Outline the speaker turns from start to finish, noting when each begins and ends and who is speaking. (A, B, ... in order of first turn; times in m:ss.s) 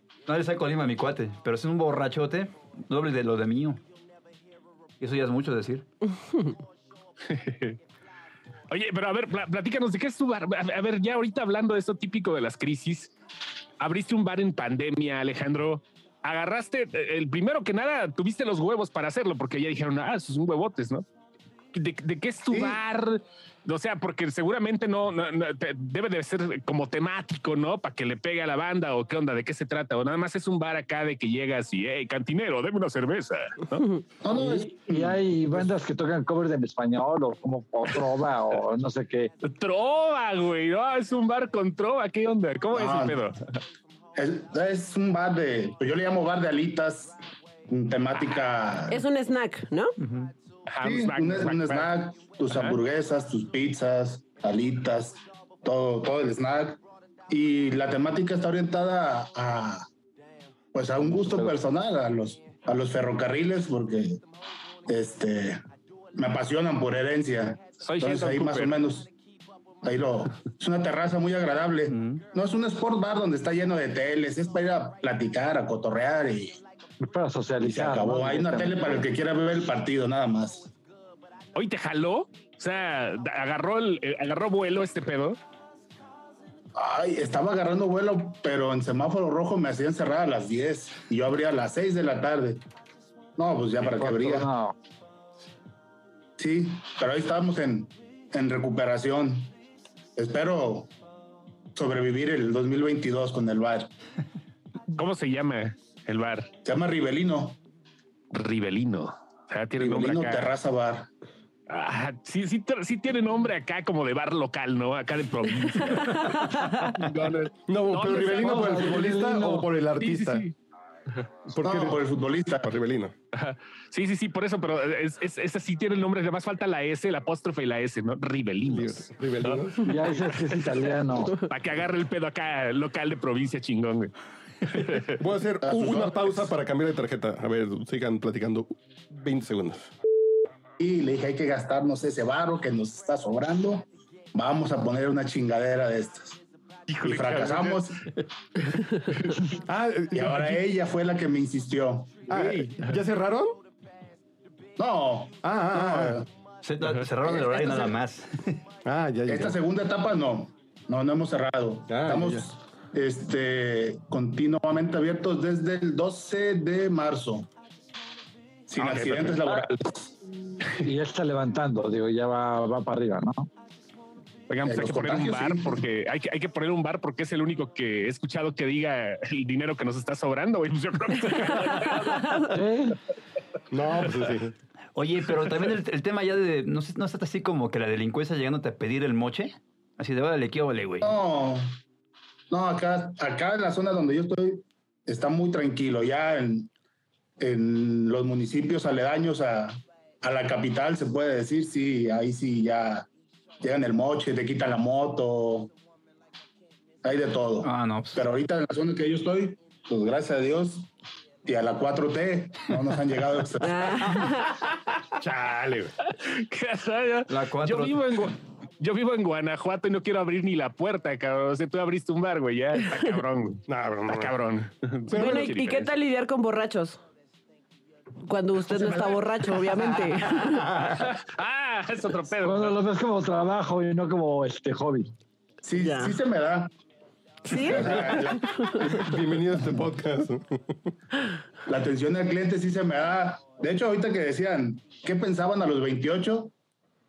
0:00.3-0:03.8 A
0:05.0-0:05.9 A
0:06.2-0:06.5 B
0:07.3-0:07.8 C
0:08.7-0:13.1 C
0:13.8-0:21.1 C
0:21.7-0:33.8 C
0:22.5-0:22.8 D
0:34.2-0:35.7 D
0:34.3-0:39.3 E
0:39.4-0:43.4 C
0:42.7-0:43.2 D
0:44.2-0:47.2 D
0:47.7-0:49.0 D
0:48.9-0:50.0 B
0:50.0-0:50.3 A
0:50.7-0:51.9 C
0:50.8-0:59.9 D
0:52.5-0:52.8 C
1:00.7-1:04.2 D
1:01.1-1:01.5 E
1:04.9-1:05.6 D
1:06.2-1:09.1 D
1:07.8-1:08.8 C
1:09.8-1:16.6 D
1:11.9-1:12.2 A
1:17.0-1:19.0 E
1:17.6-1:20.7 D
1:21.6-1:25.4 C
1:26.8-1:32.6 D
1:33.4-1:34.5 D
1:33.8-1:34.8 E
1:36.4-1:39.5 D
1:40.2-1:40.9 D
1:41.8-1:43.9 D
1:44.9-1:46.5 C
1:46.6-1:47.6 D
1:48.3-1:50.5 C
1:49.8-1:51.1 D
1:51.7-1:59.0 C
1:57.7-2:00.4 F
1:58.3-1:59.7 E
2:00.0-2:00.5 C
2:01.5-2:02.0 F
2:01.6-2:02.7 D
2:02.6-2:03.1 F
2:03.3-2:09.7 C
2:08.7-2:10.2 F
2:09.8-2:11.5 E
2:11.4-2:14.1 C
2:14.6-2:15.2 C
2:15.0-2:19.9 F
2:15.6-2:16.4 D
2:20.8-2:26.4 D
2:26.9-2:27.9 C
2:27.0-2:28.0 D
2:29.4-2:30.6 F
2:30.1-2:32.6 D
2:32.3-2:33.6 F
2:34.8-2:36.3 D
2:35.4-2:36.2 F
2:36.6-2:38.6 A
2:37.3-2:38.0 D
2:38.8-2:39.6 F
2:39.3-2:47.5 D
2:41.9-2:42.5 F
2:48.7-2:50.1 D
2:48.8-2:49.5 C
2:50.8-2:53.5 E
2:54.5-3:02.4 C
2:54.6-2:55.8 D
3:02.5-3:03.0 E
3:03.7-3:04.6 F
3:05.0-3:11.2 A
3:11.0-3:11.8 D
3:12.5-3:16.7 D
3:17.4-3:23.1 D
3:23.6-3:25.7 D
3:27.0-3:30.9 D
3:27.6-3:28.2 A
3:31.4-3:34.2 D
3:33.6-3:34.6 B
3:35.2-3:35.9 F
3:36.1-3:45.9 C
3:37.3-3:38.0 A
3:43.7-3:44.4 F
3:45.1-3:45.5 F
3:45.1-3:47.0 B
3:48.2-3:50.7 B
3:48.9-3:49.2 D
3:50.7-3:52.8 C
3:52.4-3:55.1 E
3:55.6-3:56.7 D
3:55.8-3:56.2 B
3:57.5-3:58.8 B
3:57.5-3:59.7 D
3:57.5-4:00.8 F
4:01.6-4:06.5 D